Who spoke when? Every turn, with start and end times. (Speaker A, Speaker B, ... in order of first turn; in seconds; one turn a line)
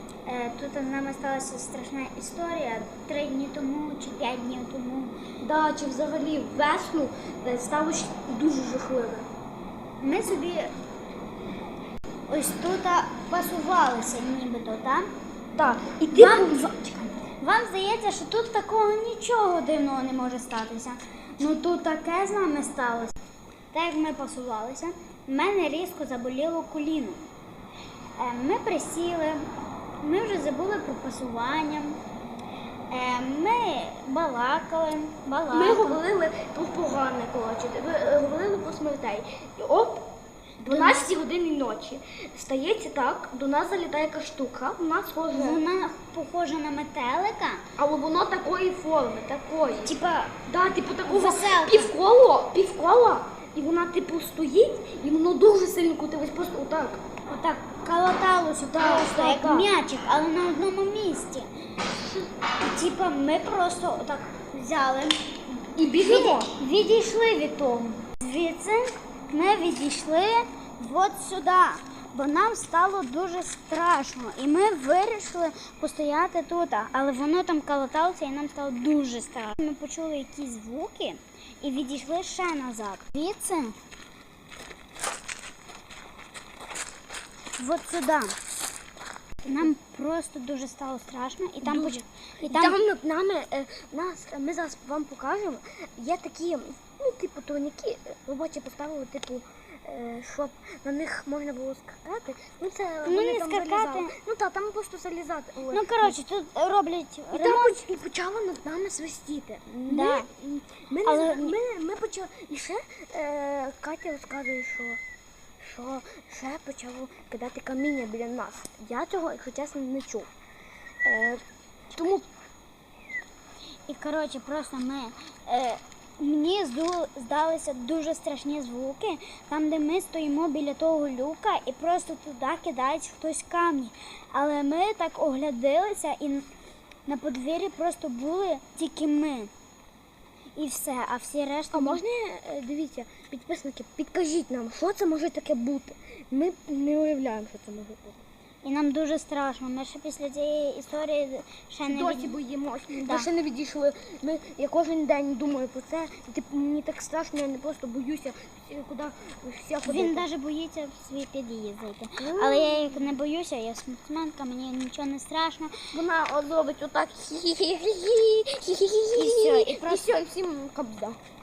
Speaker A: 0.3-5.2
Speaker B: 5.4-9.3
Speaker A: 10.0-10.7
Speaker A: 12.3-15.1
Speaker B: 15.6-17.1
Speaker A: 16.1-16.6
Speaker A: 17.2-23.1
Speaker A: 23.7-27.2
Speaker A: 28.2-29.5
Speaker A: 30.0-32.0
Speaker A: 32.9-36.0
Speaker B: 35.5-40.1
Speaker B: 40.6-45.6
Speaker A: 40.7-41.1
Speaker A: 45.3-47.6
Speaker B: 47.8-49.9
Speaker A: 49.8-50.4
Speaker B: 50.5-57.0
Speaker A: 51.1-51.9
Speaker A: 57.3-61.5
Speaker B: 58.7-59.7
Speaker A: 62.6-65.2
Speaker B: 65.8-66.5
Speaker A: 65.9-83.8
Speaker A: 87.6-88.3
Speaker A: 89.5-92.8
Speaker B: 91.6-106.2
Speaker A: 103.1-104.1
Speaker A: 105.7-107.8
Speaker B: 107.3-115.0
Speaker A: 109.9-110.3
Speaker A: 111.1-111.5
Speaker B: 115.6-120.3
Speaker B: 121.0-121.4
Speaker B: 121.9-122.3
Speaker A: 123.9-136.5
Speaker A: 137.1-139.5
Speaker A: 140.6-142.0
Speaker B: 141.7-148.2
Speaker A: 148.6-152.3
Speaker B: 151.9-160.3
Speaker A: 152.9-153.3
Speaker A: 159.9-165.7
Speaker B: 162.2-163.1
Speaker B: 165.9-171.2
Speaker A: 169.2-170.0